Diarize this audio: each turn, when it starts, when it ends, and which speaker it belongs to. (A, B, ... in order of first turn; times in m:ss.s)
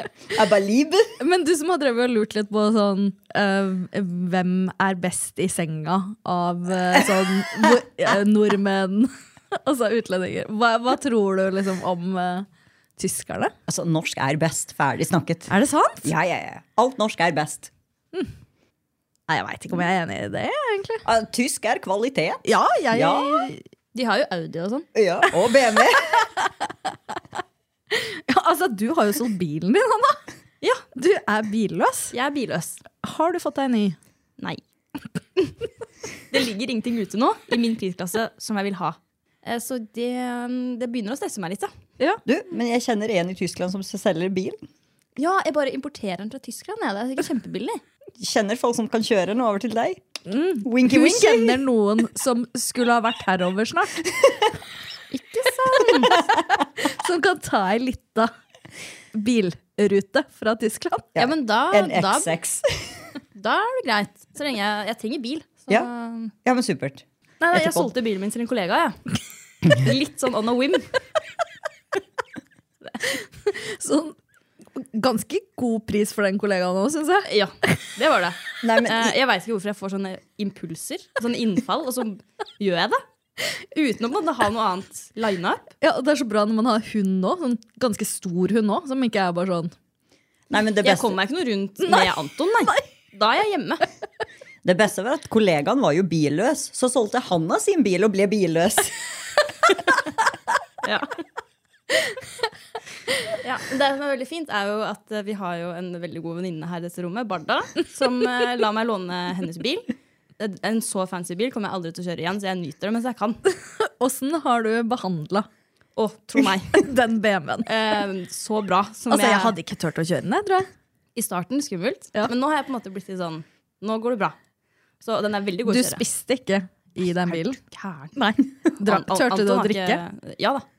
0:00.3-0:01.1 A
0:01.2-0:13.5 B
0:13.7-0:15.5 A
0:15.5-0:16.1 B
0:16.0-0:17.7 A
0:19.3-0:21.0 B
0:21.0-0:23.5 A
0:22.4-0:23.6 B
0:23.9-0:24.9 C
0:24.9-0:26.2 A
0:27.9-0:30.2 B
0:30.9-0:32.1 B
0:32.1-0:32.8 C
0:33.0-0:34.0 B
0:36.3-0:41.7 C
0:42.2-0:44.6 A
0:45.2-0:47.8 C
0:48.2-0:50.0 A
0:50.2-0:54.1 B
0:50.6-0:51.6 A
0:55.1-0:56.2 C
0:56.8-0:58.3 B
0:59.1-1:01.1 B
1:01.1-1:03.0 A
1:01.2-1:02.3 C
1:03.3-1:06.3 C
1:06.4-1:07.9 A
1:07.4-1:09.0 C
1:09.6-1:10.9 C
1:13.4-1:14.2 B
1:14.8-1:17.3 B
1:17.2-1:23.0 C
1:18.6-1:19.2 A
1:23.7-1:25.7 C
1:25.8-1:29.7 B
1:30.5-1:31.2 A
1:30.8-1:33.8 C
1:34.6-1:39.0 A
1:40.8-1:41.1 C
1:43.4-1:53.4 C
1:53.8-1:55.5 B
1:56.0-1:56.8 C
1:56.7-1:57.7 B
1:57.6-1:59.6 C
1:59.1-2:00.7 B
2:01.1-2:04.3 C
2:05.0-2:06.0 C
2:05.7-2:07.6 B
2:07.2-2:08.1 C
2:08.2-2:10.0 B
2:08.8-2:10.6 C